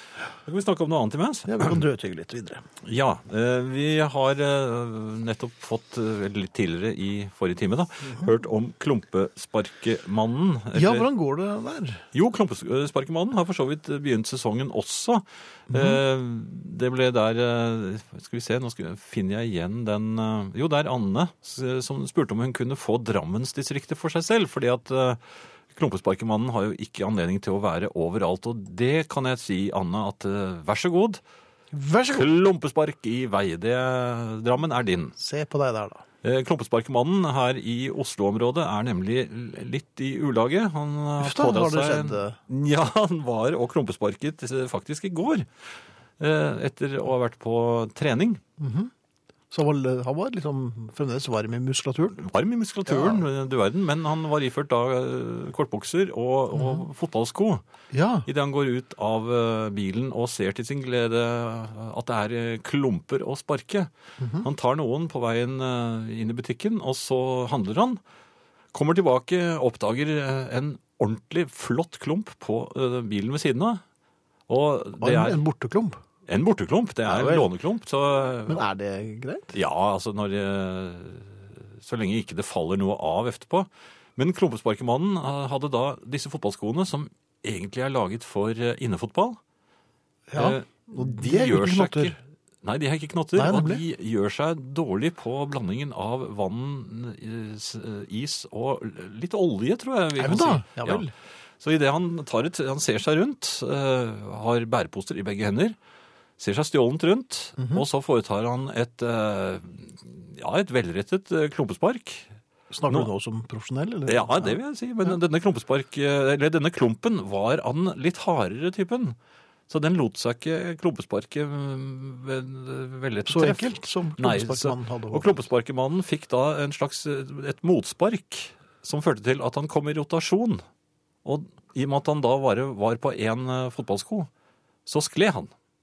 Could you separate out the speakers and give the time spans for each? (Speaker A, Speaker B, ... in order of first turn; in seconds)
Speaker A: 0.4-1.8, 2.8-11.1, 12.1-31.2, 32.1-35.1, 36.2-45.5, 46.2-48.4, 52.2-57.6, 58.2-63.9, 64.4-68.0, 68.7-73.8, 74.5-75.4, 76.3-78.6, 79.5-89.4, 90.4-101.1, 101.6-105.8, 106.4-112.3, 114.1-119.2, 119.7-130.6, 131.2-134.3, 134.9-135.5
Speaker B: 1.5-2.6, 10.7-12.0, 15.7-16.0, 31.7-32.3, 35.2-36.0, 41.2-42.4, 48.6-48.9, 49.5-52.2, 52.9-53.2, 56.5-56.8, 57.9-58.3, 64.2-64.5, 75.0-76.0, 77.0-77.5, 78.5-79.5, 90.3-92.2, 93.4-93.8, 100.2-101.1, 107.6-107.8, 112.7-114.6, 123.3-125.4